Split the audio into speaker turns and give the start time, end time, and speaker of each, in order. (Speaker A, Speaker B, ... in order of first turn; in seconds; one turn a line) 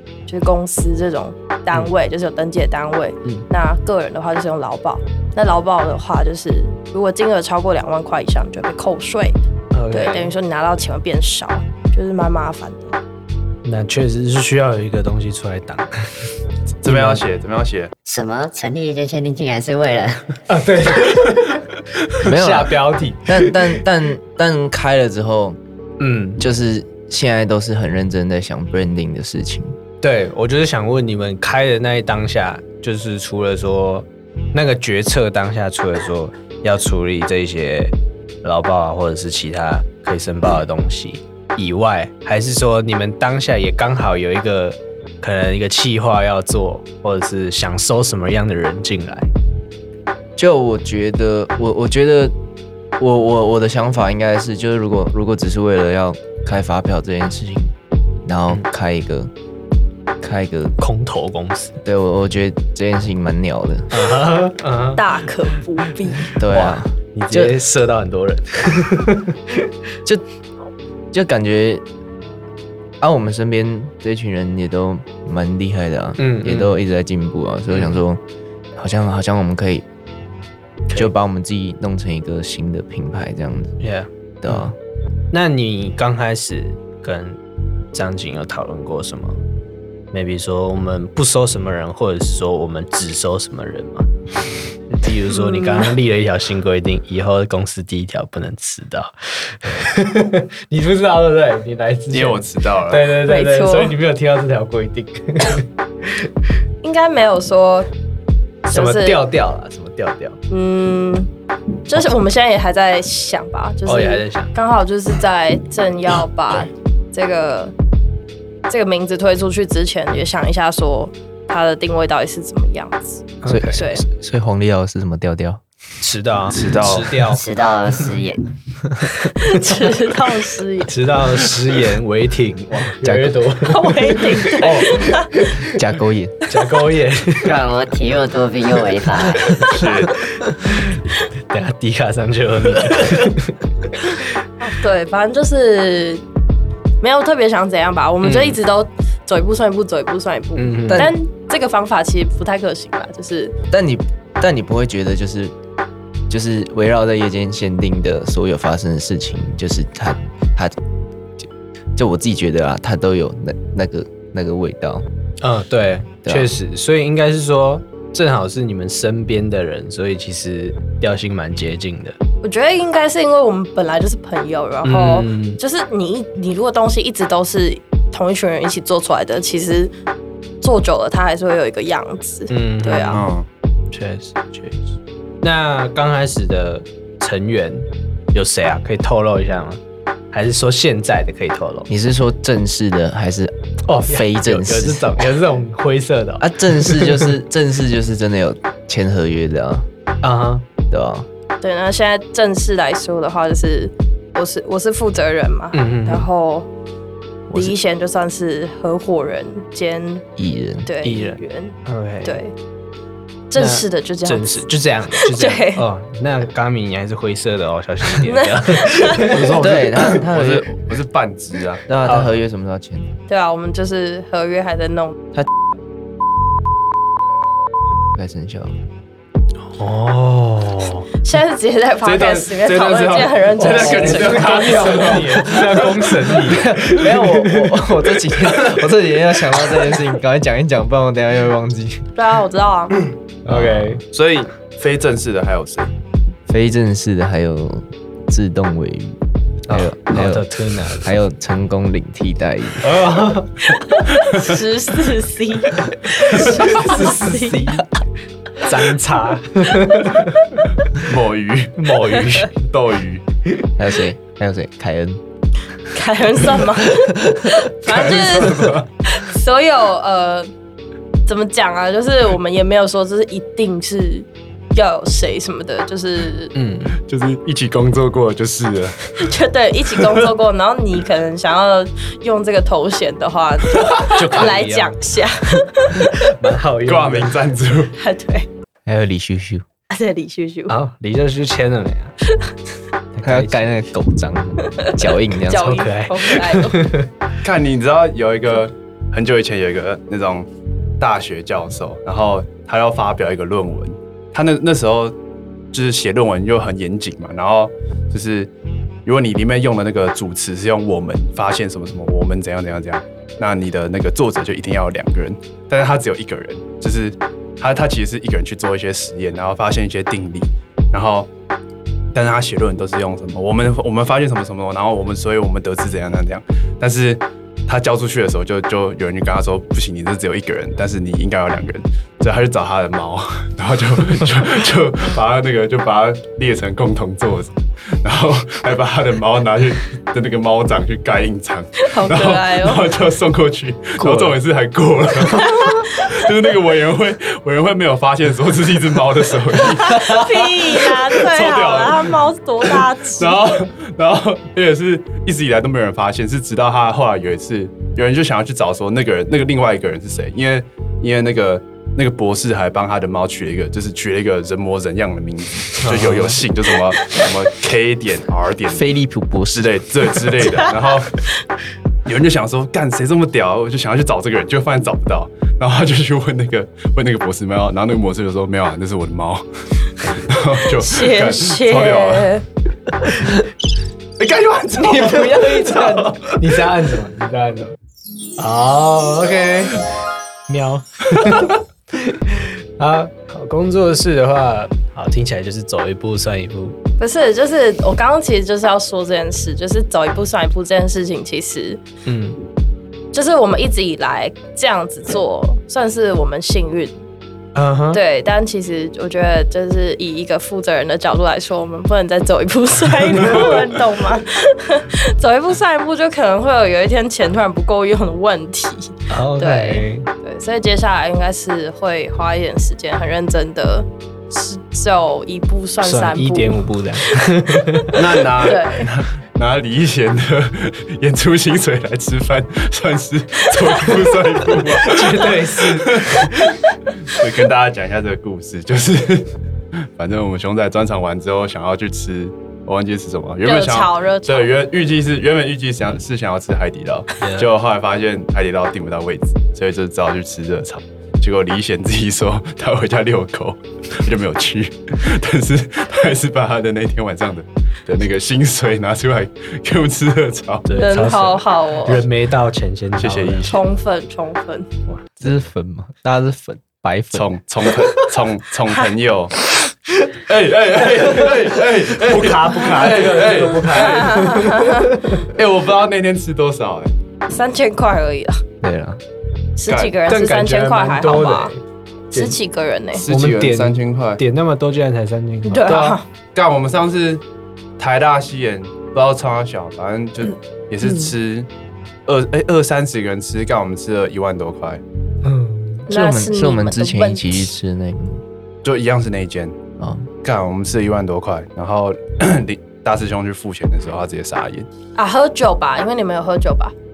Speaker A: 0.3-9.3
Speaker B: 9.7-10.3
Speaker A: 9.9-13.0
Speaker B: 13.6-16.1
Speaker C: 16.8-17.9
Speaker B: 16.8-17.2
Speaker D: 18.0-20.3
Speaker B: 20.5-23.8
Speaker E: 22.2-25.6
Speaker B: 26.0-26.4
Speaker E: 26.4-29.8
Speaker B: 30.0-49.3
Speaker E: 50.4-52.3
Speaker E: 53.0-57.7
Speaker E: 58.2-59.3
Speaker E: 60.2-60.8
Speaker B: 60.8-61.7
Speaker E: 61.8-64.0
Speaker B: 63.9-65.6
Speaker A: 65.0-66.3
Speaker E: 66.3-67.5
Speaker B: 66.5-69.7
Speaker E: 71.1-71.8
Speaker E: 73.0-78.2
Speaker B: 76.2-76.7
Speaker B: 77.7-78.0
Speaker E: 78.8-79.8
Speaker E: 80.9-83.8
Speaker B: 83.8-84.7
Speaker E: 84.4-84.7
Speaker B: 85.3-87.4
Speaker B: 87.9-89.4
Speaker B: 90.1-94.1
Speaker B: 94.9-105.7
Speaker A: 95.3-95.9
Speaker C: 102.1-103.1
Speaker A: 103.2-103.9
Speaker A: 106.8-107.9
Speaker A: 108.7-109.2
Speaker B: 108.7-110.4
Speaker A: 110.5-111.3
Speaker A: 111.9-117.7
Speaker B: 113.8-114.5
Speaker A: 118.7-124.0
Speaker B: 123.4-123.8
Speaker E: 123.5-125.6
Speaker B: 126.0-127.4
Speaker C: 126.5-127.3
Speaker D: 127.3-128.4
Speaker B: 129.0-129.8
Speaker A: 129.4-130.9
Speaker B: 130.9-135.7
Speaker E: 133.0-133.4
Speaker A: 133.6-135.3
Speaker E: 135.6-136.3
Speaker B: 136.5-137.5
Speaker D: 137.4-139.6
Speaker C: 139.6-140.2
Speaker B: 140.3-140.9
Speaker B: 141.5-144.2
Speaker A: 144.6-146.2
Speaker A: 147.0-153.5
Speaker B: 148.2-148.6
Speaker B: 150.6-151.1
Speaker E: 153.7-155.5
Speaker E: 156.3-160.8
Speaker E: 161.4-165.1
Speaker B: 165.4-172.2
Speaker E: 166.2-166.5
Speaker A: 172.4-179.9
Speaker B: 174.8-175.6
Speaker A: 180.6-183.2
Speaker B: 182.5-183.2
Speaker C: 183.1-183.5
Speaker B: 183.9-184.9
Speaker B: 185.4-189.8
Speaker B: 190.3-191.9
Speaker E: 191.9-193.5
Speaker B: 193.9-197.3
Speaker E: 194.1-195.2
Speaker E: 196.4-199.8
Speaker B: 200.2-200.6
Speaker E: 200.9-201.3
Speaker A: 201.6-206.7
Speaker B: 205.7-206.3
Speaker A: 207.5-210.2
Speaker E: 210.4-210.9
Speaker A: 210.8-212.5
Speaker B: 211.0-212.4
Speaker A: 213.5-215.8
Speaker B: 213.6-220.4
Speaker A: 218.2-219.4
Speaker C: 219.3-221.8
Speaker E: 219.5-220.6
Speaker E: 221.9-223.1
Speaker B: 222.1-222.3
Speaker A: 223.3-225.2
Speaker E: 228.1-228.7
Speaker B: 229.7-231.1
Speaker A: 231.2-235.4
Speaker C: 232.0-236.1
Speaker B: 233.6-237.8
Speaker E: 236.4-242.1
Speaker A: 242.2-243.0
Speaker B: 243.4-244.0
Speaker C: 243.5-245.9
Speaker E: 246.5-249.2
Speaker B: 249.7-251.1
Speaker E: 249.7-253.0
Speaker B: 252.8-253.9
Speaker A: 254.2-257.8
Speaker B: 256.1-257.9
Speaker B: 258.6-260.6
Speaker C: 261.0-261.9
Speaker B: 261.8-262.5
Speaker C: 262.5-263.2
Speaker E: 263.8-265.2
Speaker A: 265.9-270.5
Speaker C: 267.8-268.9
Speaker A: 271.3-276.5
Speaker B: 276.5-276.9
Speaker C: 277.0-279.2
Speaker A: 279.2-286.2
Speaker B: 284.0-285.0
Speaker B: 285.9-287.4
Speaker C: 286.9-287.9
Speaker A: 288.0-288.5
Speaker E: 288.9-289.6
Speaker A: 289.9-290.7
Speaker B: 290.7-292.1
Speaker B: 293.1-293.6
Speaker E: 293.2-295.8
Speaker A: 294.8-296.8
Speaker B: 295.6-297.1
Speaker C: 297.4-300.5
Speaker C: 301.0-305.1
Speaker C: 305.7-308.5
Speaker C: 309.1-321.3
Speaker C: 322.1-352.2
Speaker A: 341.8-342.9
Speaker B: 344.0-344.4
Speaker A: 345.7-346.2
Speaker A: 349.6-353.6
Speaker C: 353.1-368.9
Speaker B: 365.8-366.4
Speaker E: 368.7-369.8
Speaker C: 369.5-371.3
Speaker C: 372.0-382.3
Speaker A: 380.7-382.4
Speaker B: 383.1-383.4
Speaker C: 384.2-386.4
Speaker B: 384.8-387.7
Speaker B: 388.4-389.8
Speaker B: 390.5-396.8
Speaker A: 397.0-401.8
Speaker B: 402.1-402.4
Speaker A: 403.1-406.9
Speaker B: 407.5-408.0
Speaker A: 407.9-428.9
Speaker C: 413.2-413.6
Speaker B: 419.1-420.1
Speaker B: 425.8-428.0
Speaker C: 427.9-436.4
Speaker B: 434.8-436.4
Speaker C: 437.0-439.3
Speaker C: 439.9-460.7
Speaker A: 443.4-444.5
Speaker B: 447.2-447.5
Speaker B: 460.6-463.6
Speaker A: 460.8-462.0
Speaker C: 463.0-463.6
Speaker A: 463.5-464.7
Speaker E: 465.2-467.3
Speaker C: 467.1-469.3
Speaker C: 470.2-474.5
Speaker B: 471.9-475.3
Speaker A: 473.7-474.9
Speaker C: 475.3-476.9
Speaker A: 477.3-478.4
Speaker E: 478.6-479.0
Speaker A: 479.6-481.5
Speaker C: 479.7-479.9
Speaker B: 480.1-481.6
Speaker A: 482.1-483.0
Speaker C: 482.9-484.2
Speaker B: 483.1-485.8
Speaker A: 485.4-486.0
Speaker C: 485.7-487.2
Speaker C: 487.8-491.5
Speaker C: 492.1-494.8
Speaker B: 495.2-495.9
Speaker A: 495.9-497.5
Speaker E: 495.9-498.2
Speaker C: 498.6-499.5
Speaker E: 499.8-500.1
Speaker C: 500.2-504.7
Speaker A: 504.9-506.7